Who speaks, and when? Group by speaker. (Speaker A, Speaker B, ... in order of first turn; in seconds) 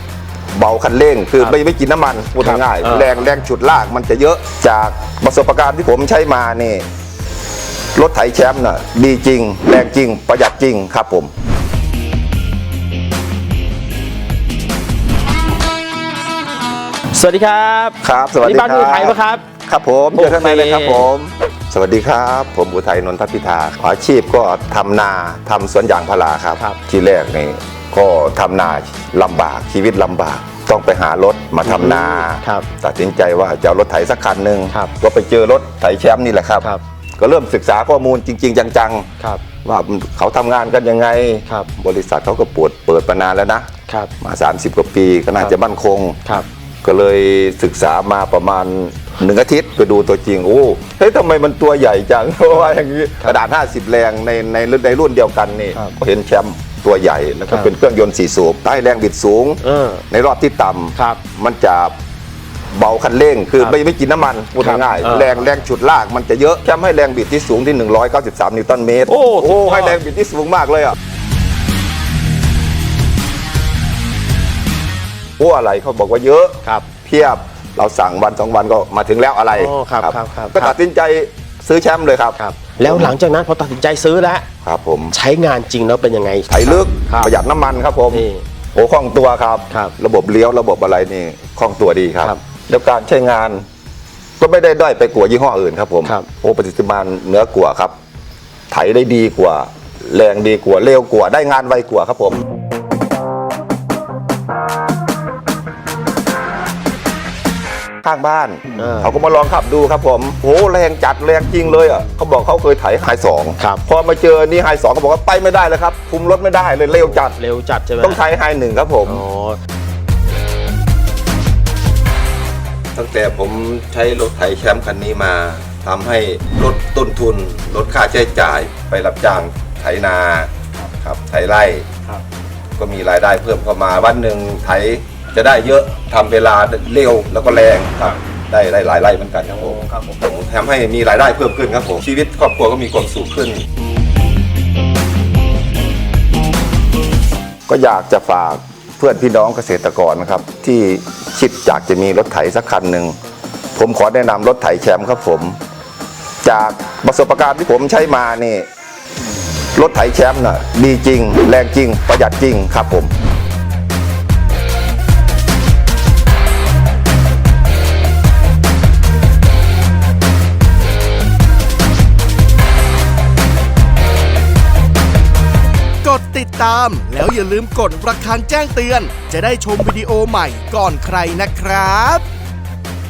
Speaker A: 0.5-6.8, 7.9-11.3, 18.0-36.7, 37.2-39.1, 39.6-43.7, 44.2-46.2, 46.8-61.9, 62.7-71.0, 75.4-83.1, 84.6-85.1, 86.5-93.6, 94.4-97.9, 98.7-102.4, 108.0-117.4, 118.0-119.2, 122.9-131.9, 132.8-143.7, 147.7-153.2, 153.7-155.6, 156.4-158.7, 159.7-163.1
Speaker B: 2.4-3.1, 17.1-19.4, 20.1-21.1, 31.6-32.7, 43.9-44.1, 59.6-60.0, 64.6-65.5, 69.1-70.0, 79.5-80.7, 82.3-84.5, 85.1-87.3, 88.1-88.4, 108.8-109.1, 117.0-118.2, 119.0-119.6, 139.7-140.1
Speaker C: 176.0-182.2